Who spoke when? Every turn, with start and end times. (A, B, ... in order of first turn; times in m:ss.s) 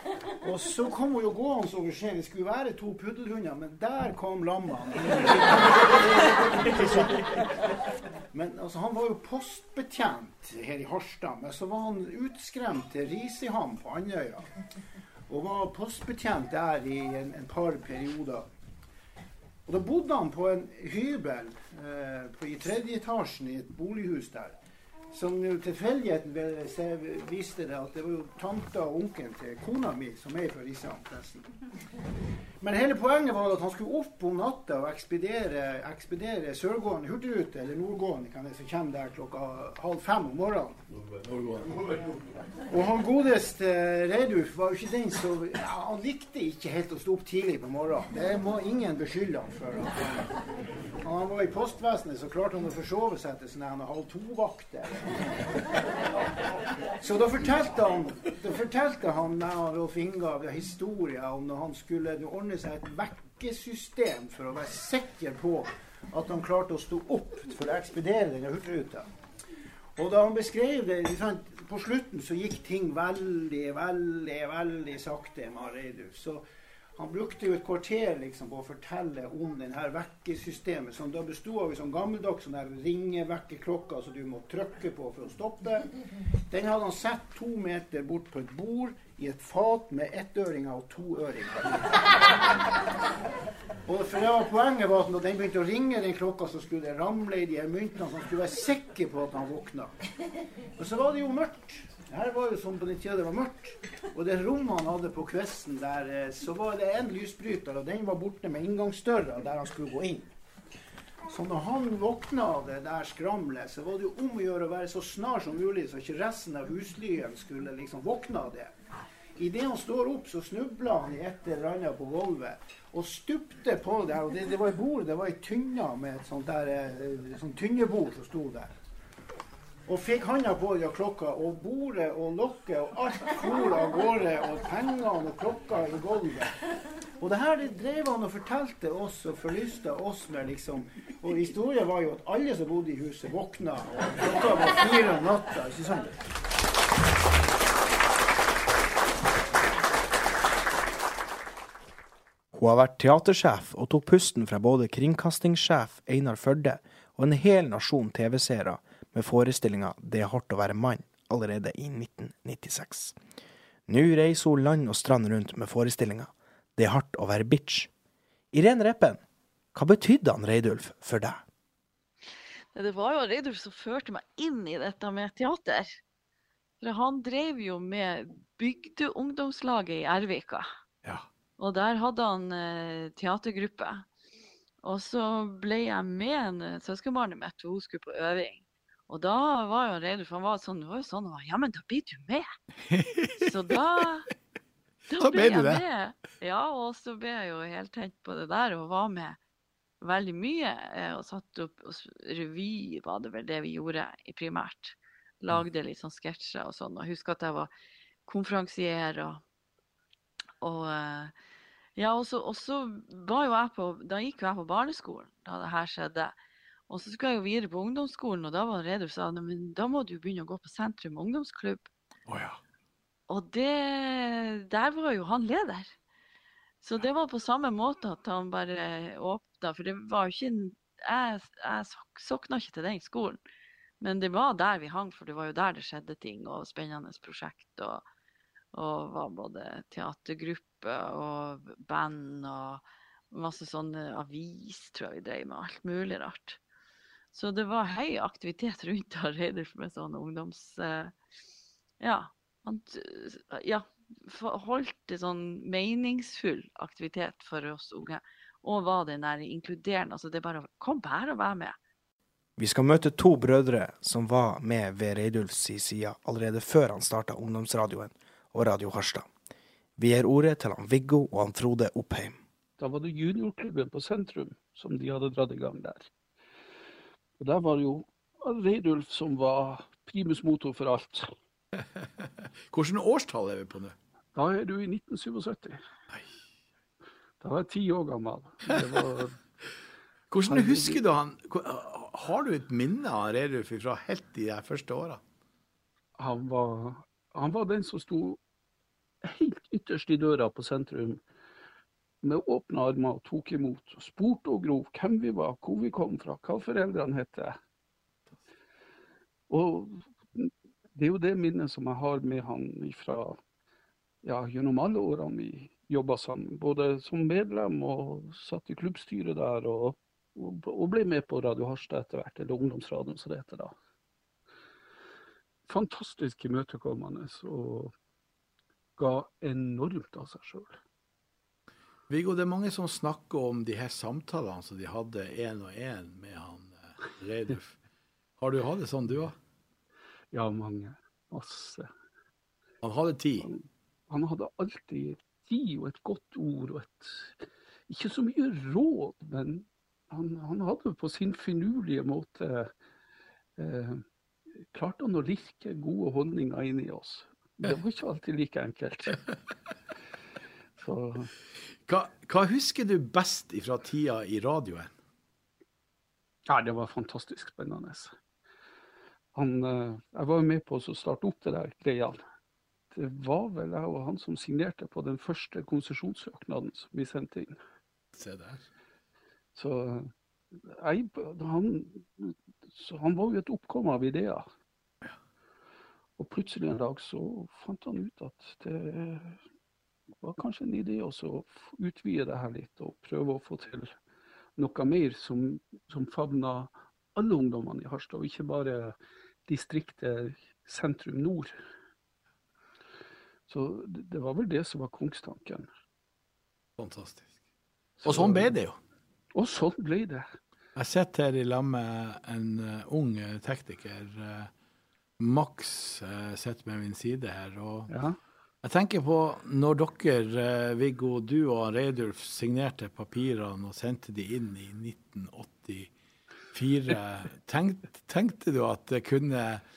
0:00.4-0:07.5 A
0:08.3-0:14.5 A
0:15.3-0:18.4 A
0:19.7-0:24.6 A
0:25.1-0:31.5 A
0:32.6-0:40.8 A
0:41.0-0:42.2 B
0:42.7-0:50.4 A
0:51.0-0:55.2 A
0:57.0-1:09.1 A
1:10.0-1:16.4 A
1:17.0-1:25.9 A
1:26.5-1:32.1 A
1:33.8-1:39.9 A
1:40.8-1:50.3 A
1:51.3-1:58.7 A
1:59.4-2:08.7 A
2:09.9-2:16.6 A
2:17.2-2:26.2 A
2:32.5-2:43.2 C
2:43.9-2:47.9 C
2:48.5-2:49.2 C
2:49.7-2:51.4 C
2:52.8-2:56.0 D
2:56.8-3:00.7 D
3:01.6-3:04.1 D
3:04.8-3:12.5 D
3:12.9-3:13.6 B
3:13.4-3:14.3 D
3:15.1-3:19.4 D
3:15.2-3:15.8 B
3:20.0-3:27.7 D
3:28.3-3:29.4 D
3:30.6-3:31.3 D
3:32.0-3:36.4 D
3:36.9-3:41.9 D
3:42.3-3:42.6 B
3:43.3-3:45.9 D
3:46.8-3:53.4 D
3:54.0-3:58.0 D
3:58.7-4:06.6 D
4:07.3-4:11.1 D
4:12.0-4:21.8 D
4:22.6-4:29.3 C
4:30.0-4:32.4 C
4:32.8-4:36.1 E
4:37.4-4:41.3 E
4:41.8-4:44.0 B
4:44.4-4:45.8 E
4:47.4-4:49.4 E
4:50.3-4:55.2 B
4:50.5-4:51.0 E
4:56.2-4:58.4 E
4:59.2-5:01.2 E
5:02.2-5:07.6 E
5:09.5-5:13.4 E
5:14.2-5:23.8 E
5:25.7-5:27.9 E
5:29.0-5:30.8 E
5:32.1-5:37.7 B
5:38.4-5:39.4 B
5:40.3-5:41.9 E
5:42.8-5:43.5 B
5:43.4-5:47.3 E
5:47.9-5:52.7 E
5:53.6-5:54.0 E
5:54.7-5:59.2 E
6:00.8-6:01.3 E
6:01.9-6:04.9 B
6:06.5-6:08.2 E
6:09.3-6:12.2 E
6:12.9-6:17.6 E
6:18.2-6:18.6 B
6:19.6-6:20.1 E
6:20.7-6:24.5 E
6:26.2-6:29.4 E
6:30.2-6:33.9 E
6:34.6-6:41.6 E
6:43.5-6:45.7 E
6:46.8-6:47.3 B
6:48.0-6:48.6 E
6:48.0-6:48.8 B
6:49.3-6:50.3 E
6:50.8-6:54.5 B
6:55.2-6:57.9 B
6:57.9-6:58.2 E
6:58.6-7:05.9 B
7:06.5-7:09.6 B